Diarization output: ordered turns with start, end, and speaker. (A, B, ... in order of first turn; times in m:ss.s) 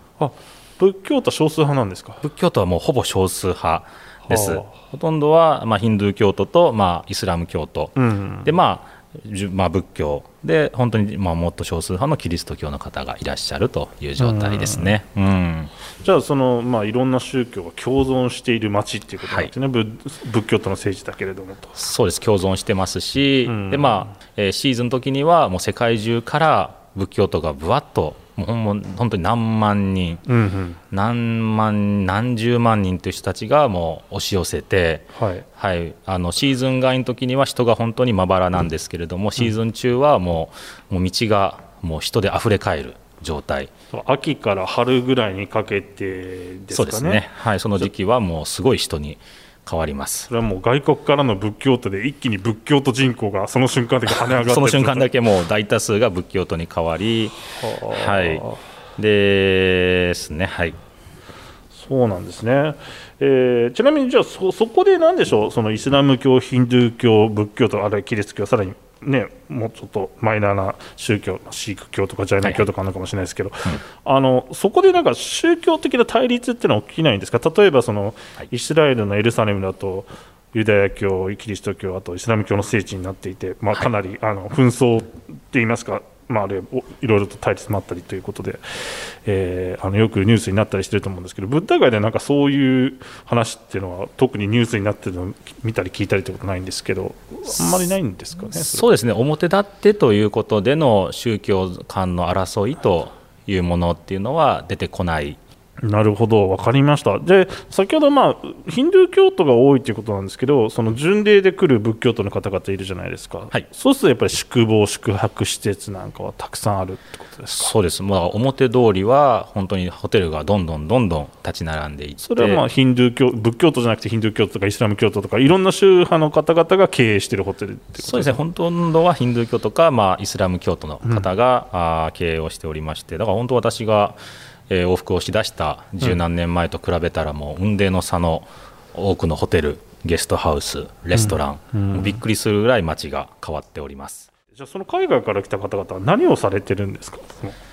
0:00.2-0:02.2 A
0:02.2-0:15.7 B
0:04.3-0:04.7 A
0:08.0-0:08.5 A
0:14.2-0:14.9 A
0:16.0-0:21.7 A
0:19.2-0:19.5 B
0:21.8-0:30.2 B
0:23.5-0:24.0 A
0:30.3-0:30.8 A
0:30.9-0:43.7 B
0:35.2-0:35.5 A
0:43.9-0:47.2 A
0:46.7-0:50.3 B
0:50.3-0:55.1 A
0:54.1-0:57.4 B
0:57.6-0:58.6 A
0:57.9-0:58.5 B
0:59.0-1:00.8 B
1:01.7-1:38.8 A
1:38.5-1:45.4 B
1:45.8-1:57.7 A
1:57.5-2:02.6 B
2:02.2-2:08.4 A
2:08.0-2:14.2 B
2:14.7-2:24.3 B
2:21.1-2:22.2 A
2:24.5-2:27.6 A